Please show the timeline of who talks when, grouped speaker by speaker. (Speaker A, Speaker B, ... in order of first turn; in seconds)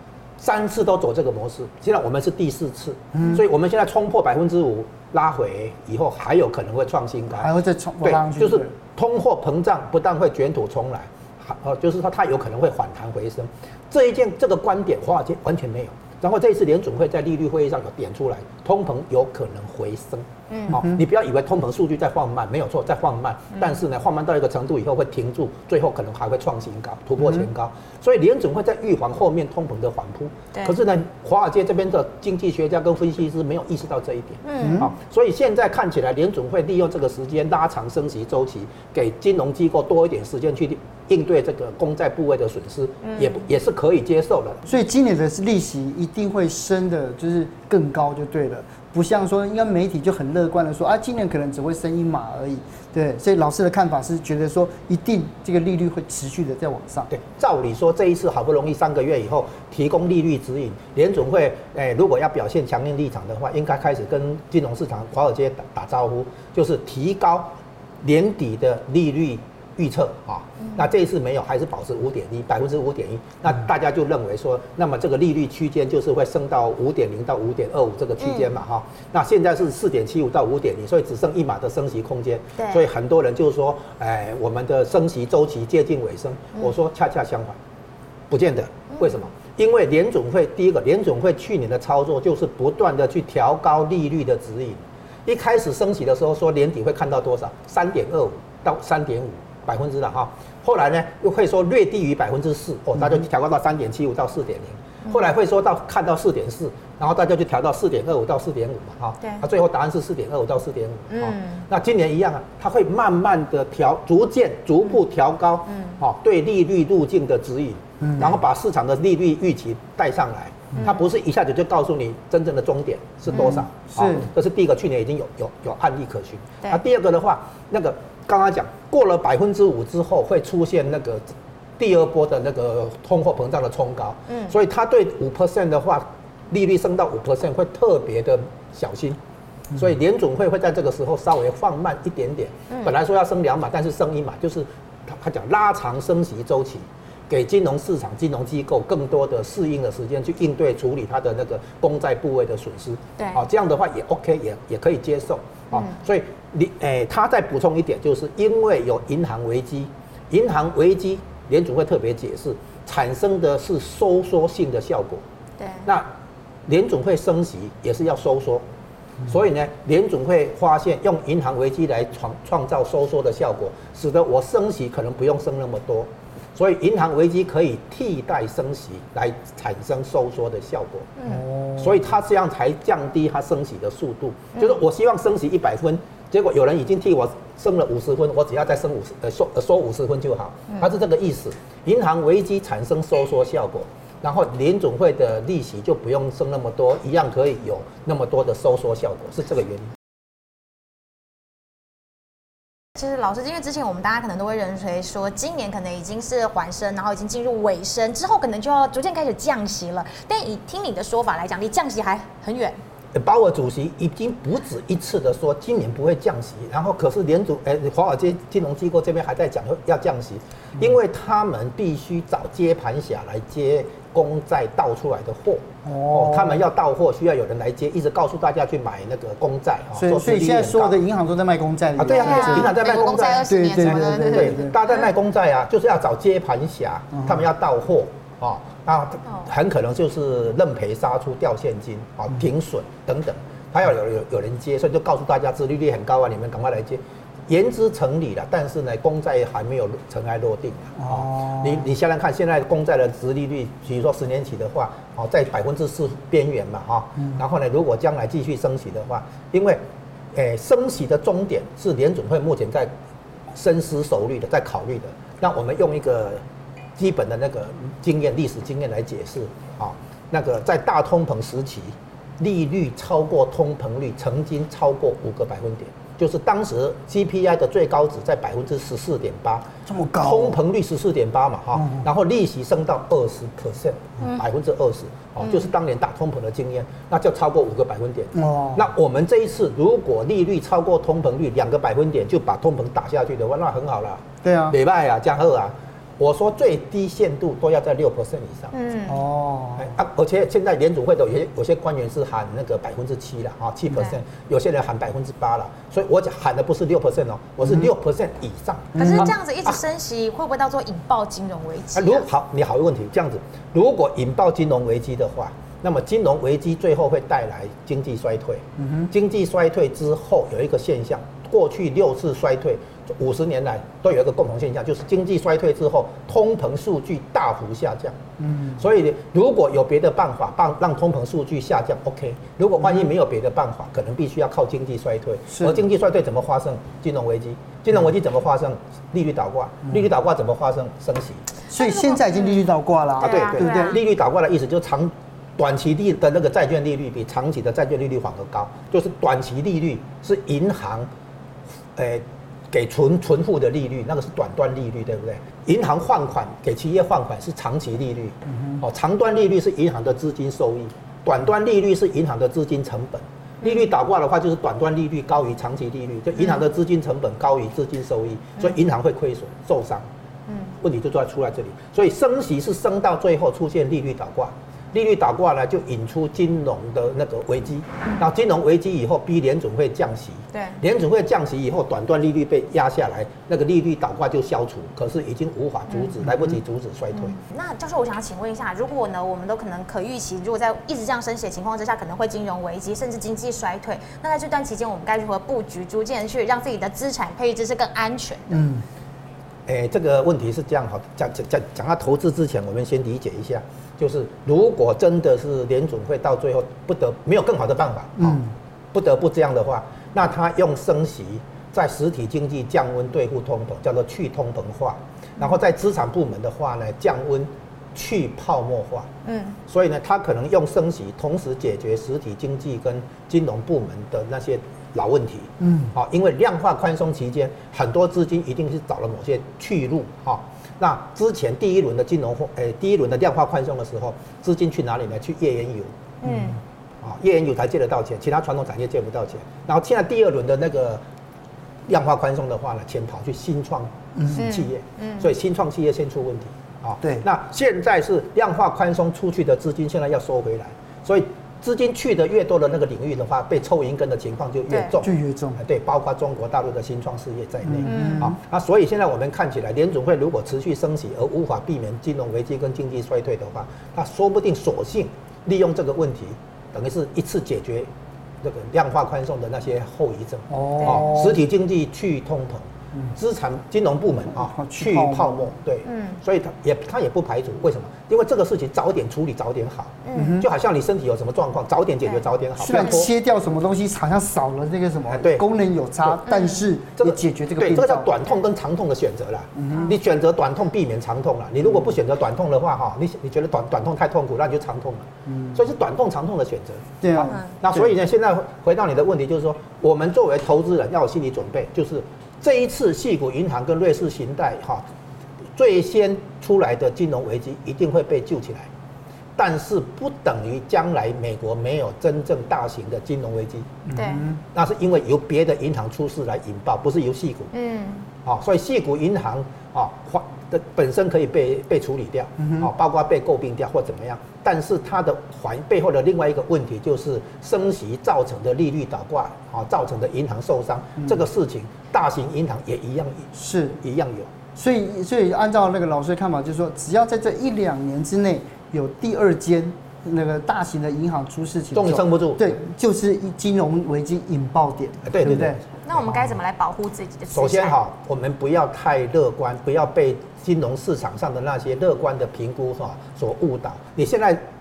Speaker A: 0.4-7.5, 8.0-44.6, 57.1-87.6, 88.3-131.2, 131.8-139.2, 139.7-165.2, 166.7-168.6, 169.3-181.1, 181.8-199.9, 213.1-231.0, 231.9-259.8, 260.3-262.9, 263.5-266.4, 267.0-298.7, 299.8-309.8, 311.9-328.2, 328.8-341.4, 343.2-351.1, 351.9-370.1, 370.8-387.4, 399.6-419.1, 419.7-435.9, 437.0-441.0, 441.9-467.9, 468.4-483.1, 485.1-485.4, 487.0-504.8, 505.5-508.7, 509.4-513.8, 514.5-517.5, 518.2-534.3, 541.7-542.6, 545.0-545.5, 547.3-554.4
Speaker B: 3.1-3.4, 7.3-8.7, 20.7-21.0, 34.6-34.9, 44.6-57.1, 118.0-118.3, 123.3-124.3, 181.2-182.0, 225.8-226.6, 229.9-232.7, 233.4-234.8, 237.1-237.4, 251.0-251.8, 279.9-280.6, 281.8-282.0, 288.3-288.8, 294.4-294.8, 299.1-299.9, 309.0-309.3, 318.8-319.1, 328.4-328.8, 335.5-335.8, 341.7-344.0, 398.5-398.8, 408.2-408.5, 425.6-425.9, 444.1-444.4, 455.0-455.6, 457.6-458.3, 470.5-471.4, 474.3-475.5, 480.1-480.5, 482.6-488.1, 489.6-489.9, 495.3-495.6, 497.0-497.9, 513.9-514.4, 522.4-522.6, 533.3-533.8, 534.5-545.6
Speaker C: 20.5-20.8, 34.4-34.9, 43.0-43.4, 70.6-70.9, 78.2-78.5, 82.6-82.8, 88.9-89.2, 111.1-111.7, 115.7-116.0, 120.8-121.0, 123.3-123.6, 134.3-134.5, 165.6-165.8, 181.2-181.4, 202.9-212.8, 232.1-234.7, 298.7-299.2, 303.9-304.2, 308.9-312.2, 341.7-342.6, 343.2-344.0, 363.6-363.9, 366.4-366.6, 370.5-370.8, 380.5-380.8, 387.1-398.6, 419.2-419.6, 436.2-436.6, 444.3-445.3, 454.7-454.9, 457.8-458.3, 470.8-471.1, 475.8-476.2, 480.0-480.4, 482.1-482.8, 486.3-486.6, 513.9-514.2, 517.5-518.1, 545.8-547.8